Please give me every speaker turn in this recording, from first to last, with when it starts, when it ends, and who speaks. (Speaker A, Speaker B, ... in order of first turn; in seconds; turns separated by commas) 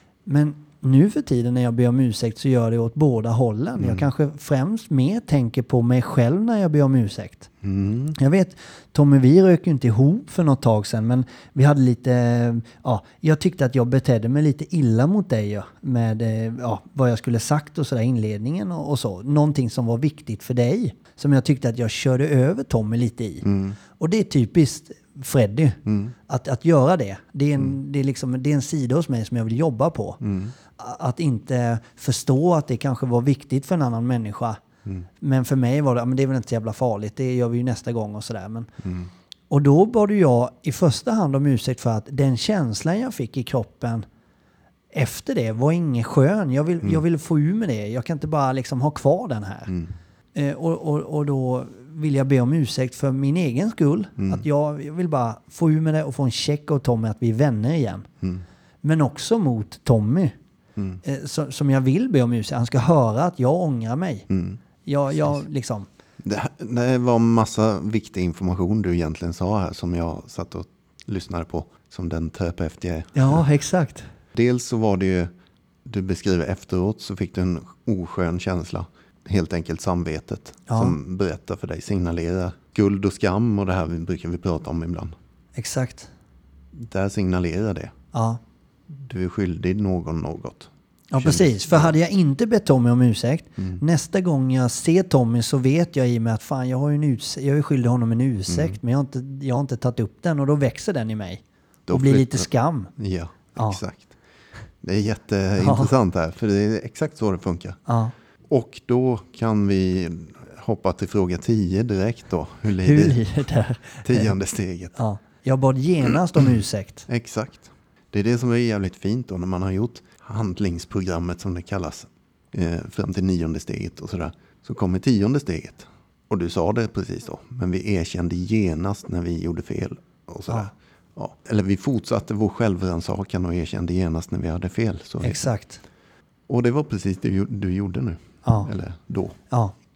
Speaker A: 0.3-7.5, Speaker B: 3.8-4.1, Speaker B: 7.6-8.2, Speaker A: 8.2-30.2, Speaker B: 23.4-23.8, Speaker B: 25.9-26.1, Speaker B: 30.2-30.6, Speaker A: 30.8-34.6, Speaker A: 35.2-38.7, Speaker B: 38.8-39.1, Speaker A: 39.5-44.0, Speaker A: 44.9-49.7, Speaker A: 50.4-58.1, Speaker B: 54.2-54.4, Speaker A: 58.8-60.4, Speaker A: 61.0-64.3, Speaker B: 64.3-64.6, Speaker A: 64.8-65.9, Speaker B: 66.2-73.4, Speaker A: 73.2-74.1, Speaker B: 74.3-75.3, Speaker B: 75.8-85.1, Speaker A: 80.7-81.0, Speaker A: 85.6-86.1, Speaker B: 86.8-87.9, Speaker A: 88.1-88.4, Speaker B: 88.9-92.0, Speaker A: 91.1-102.9, Speaker B: 98.5-98.8, Speaker B: 101.9-104.2, Speaker A: 103.6-103.8, Speaker B: 104.8-107.8, Speaker A: 105.6-105.9, Speaker A: 107.9-108.1, Speaker B: 108.5-113.2, Speaker A: 112.8-114.3, Speaker B: 114.0-115.0, Speaker A: 115.0-117.1, Speaker B: 117.1-135.4, Speaker A: 135.2-135.8, Speaker B: 136.5-139.4, Speaker A: 138.4-138.7